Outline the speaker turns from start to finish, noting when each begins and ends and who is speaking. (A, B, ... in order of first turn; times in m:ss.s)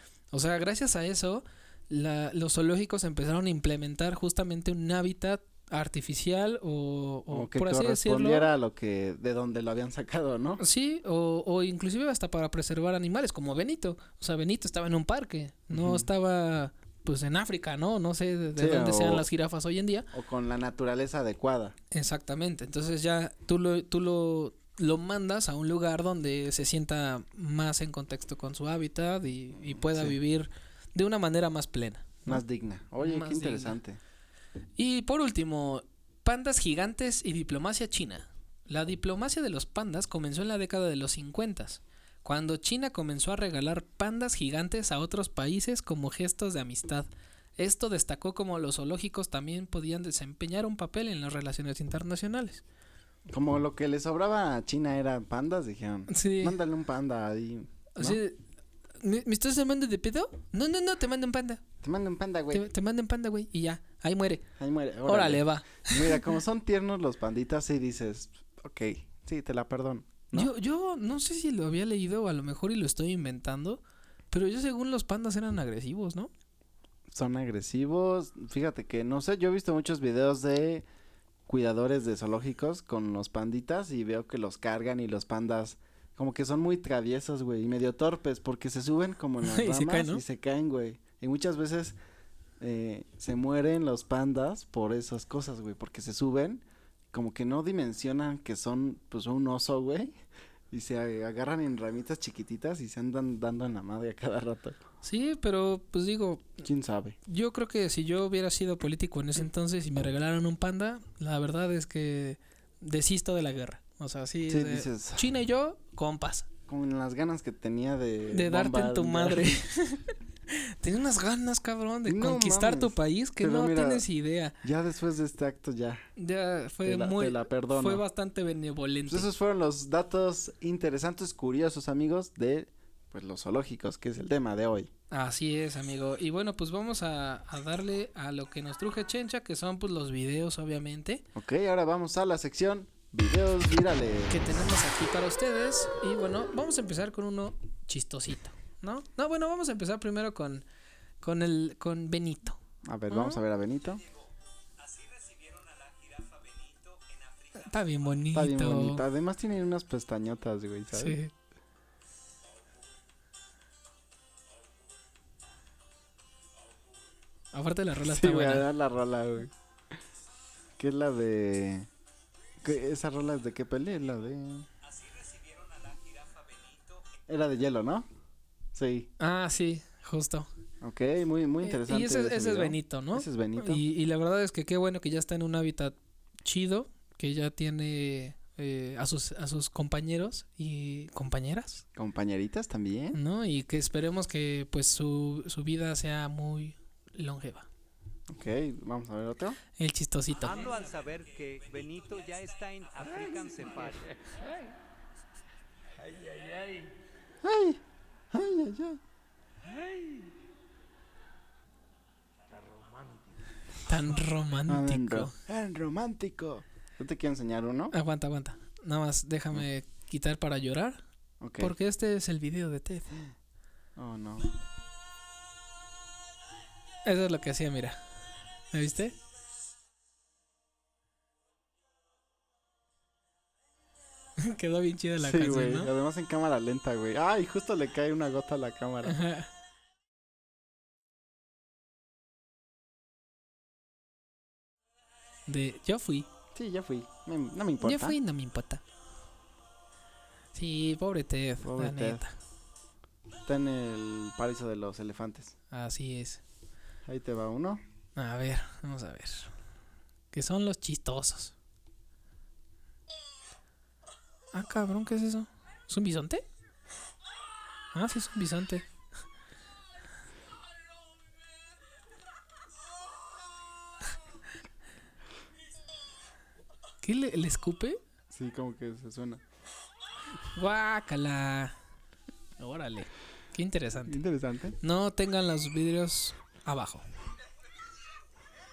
0:00.3-0:08.5 A
0:07.3-0:10.6 B
0:10.6-0:20.1 A
0:15.7-0:16.1 B
0:18.6-0:19.3 B
0:20.1-0:21.8 B
0:21.9-0:32.4 A
0:29.6-0:30.2 B
0:32.2-0:34.0 B
0:33.0-0:33.8 A
0:34.8-0:52.6 A
0:53.3-0:58.2 B
0:56.1-0:56.6 A
0:58.0-0:58.4 A
0:59.0-1:01.6 A
1:01.8-1:02.7 B
1:02.5-1:04.4 A
1:04.6-1:10.5 B
1:05.0-1:06.2 A
1:10.3-1:16.3 A
1:17.1-1:20.8 B
1:21.5-1:32.0 B
1:29.4-1:30.2 A
1:32.6-1:40.1 B
1:40.7-1:44.8 B
1:45.0-1:46.6 A
1:46.6-1:47.2 B
1:47.3-1:56.5 A
1:54.5-1:55.3 B
1:56.7-1:59.6 B
1:58.3-2:04.6 A
2:02.0-2:04.0 B
2:04.6-2:06.0 B
2:06.2-2:09.3 A
2:06.8-2:08.0 B
2:09.1-2:14.9 B
2:15.1-2:21.2 A
2:21.3-2:24.4 B
2:24.3-2:30.6 A
2:31.2-2:33.4 A
2:32.8-2:34.0 B
2:33.9-2:38.2 C
2:37.6-2:39.0 A
2:38.3-2:41.2 B
2:40.9-2:41.3 A
2:47.5-2:48.6 A
2:48.0-2:49.5 B
2:50.8-2:51.9 B
2:52.6-2:54.7 B
2:54.8-2:57.2 C
2:57.3-2:58.1 B
2:58.7-2:59.1 B
2:59.2-3:00.5 A
3:00.8-3:03.8 B
3:01.6-3:11.8 A
3:11.9-3:13.2 B
3:13.1-3:17.7 A
3:18.3-3:19.6 B
3:19.8-3:20.6 A
3:20.4-3:24.3 C
3:27.4-3:29.0 B
3:33.8-3:35.3 A
3:34.7-3:37.9 B
3:37.9-3:41.0 A
3:41.4-3:41.7 B
3:41.6-3:43.2 A
3:44.0-3:44.5 B
3:47.0-3:48.0 A
3:48.7-3:49.2 A
3:54.4-3:55.9 A
3:55.2-3:59.2 B
3:59.0-3:59.5 A
4:05.5-4:06.3 A
4:06.5-4:08.2 B
4:07.8-4:08.8 A
4:10.5-4:12.3 A
4:11.6-4:12.2 B
4:13.4-4:15.6 B
4:15.7-4:16.4 A
4:17.0-4:17.8 B
4:18.2-4:19.5 A
4:20.3-4:21.5 A
4:24.5-4:26.4 A
4:27.9-4:28.8 A
4:37.0-4:38.0 A
4:38.3-4:39.4 B
4:40.5-4:41.7 A
4:42.6-4:44.2 A
4:44.1-4:44.8 B
4:44.8-4:47.0 A